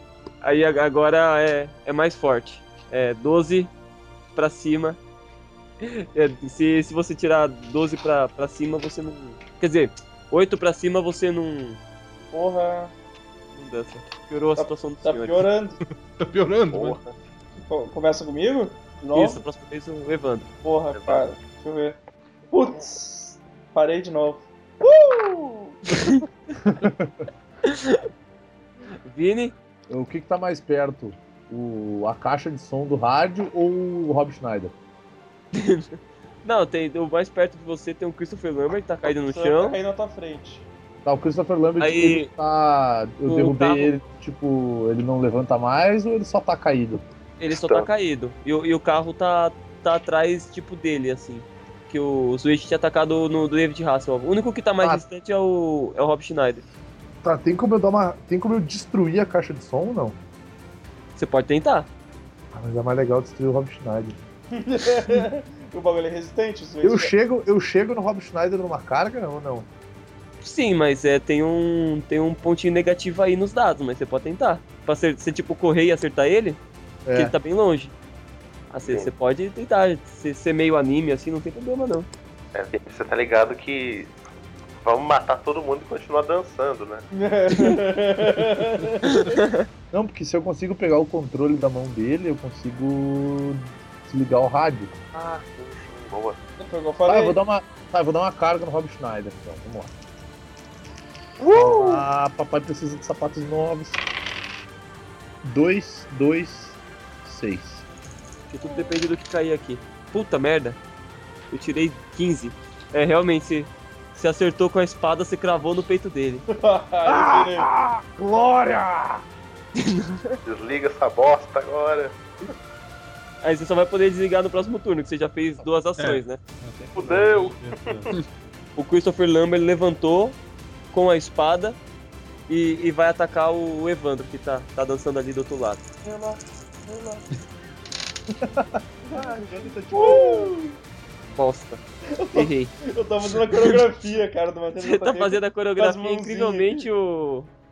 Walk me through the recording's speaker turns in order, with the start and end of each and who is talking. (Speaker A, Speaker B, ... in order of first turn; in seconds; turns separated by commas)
Speaker A: 0.4-3.7, Speaker A: 4.3-5.0, Speaker A: 5.8-11.8, Speaker B: 12.3-12.9, Speaker A: 13.5-15.4, Speaker B: 14.6-15.8, Speaker C: 15.9-17.0, Speaker D: 16.7-17.1, Speaker B: 17.6-19.4, Speaker A: 19.1-20.5, Speaker B: 20.6-22.0, Speaker D: 20.9-21.3, Speaker B: 22.5-25.8, Speaker A: 25.9-26.2, Speaker E: 26.6-27.2, Speaker A: 27.6-28.1, Speaker A: 29.1-29.6, Speaker E: 29.9-34.8, Speaker A: 35.5-39.8, Speaker B: 39.1-40.7, Speaker E: 41.0-47.0, Speaker A: 41.8-42.3, Speaker A: 43.2-43.9, Speaker A: 47.4-56.7, Speaker D: 47.5-47.9, Speaker E: 57.2-60.2, Speaker A: 61.2-61.9, Speaker E: 62.5-64.2, Speaker B: 64.5-67.1, Speaker E: 66.8-69.7, Speaker A: 70.4-76.6, Speaker E: 77.1-77.3, Speaker A: 77.2-77.9, Speaker A: 78.7-82.1, Speaker D: 78.9-79.1, Speaker D: 82.5-84.1, Speaker D: 84.8-87.1, Speaker B: 87.1-89.4, Speaker A: 89.1-89.7, Speaker E: 89.9-95.0, Speaker D: 95.1-96.4, Speaker B: 96.6-97.4, Speaker E: 97.1-99.9, Speaker E: 101.5-104.0, Speaker E: 105.4-107.8, Speaker A: 108.5-110.8, Speaker B: 108.7-109.0, Speaker A: 111.5-116.5, Speaker B: 116.5-117.7, Speaker E: 117.0-119.2, Speaker A: 119.8-120.4, Speaker D: 120.5-122.2, Speaker A: 123.4-126.4, Speaker C: 126.0-128.1, Speaker D: 127.0-128.1, Speaker A: 128.8-130.4, Speaker A: 130.9-131.8, Speaker A: 132.5-135.8, Speaker B: 136.1-137.2, Speaker E: 138.4-140.5, Speaker B: 139.1-140.8, Speaker A: 141.3-141.8, Speaker B: 142.1-146.9, Speaker A: 142.3-142.8, Speaker A: 144.8-147.5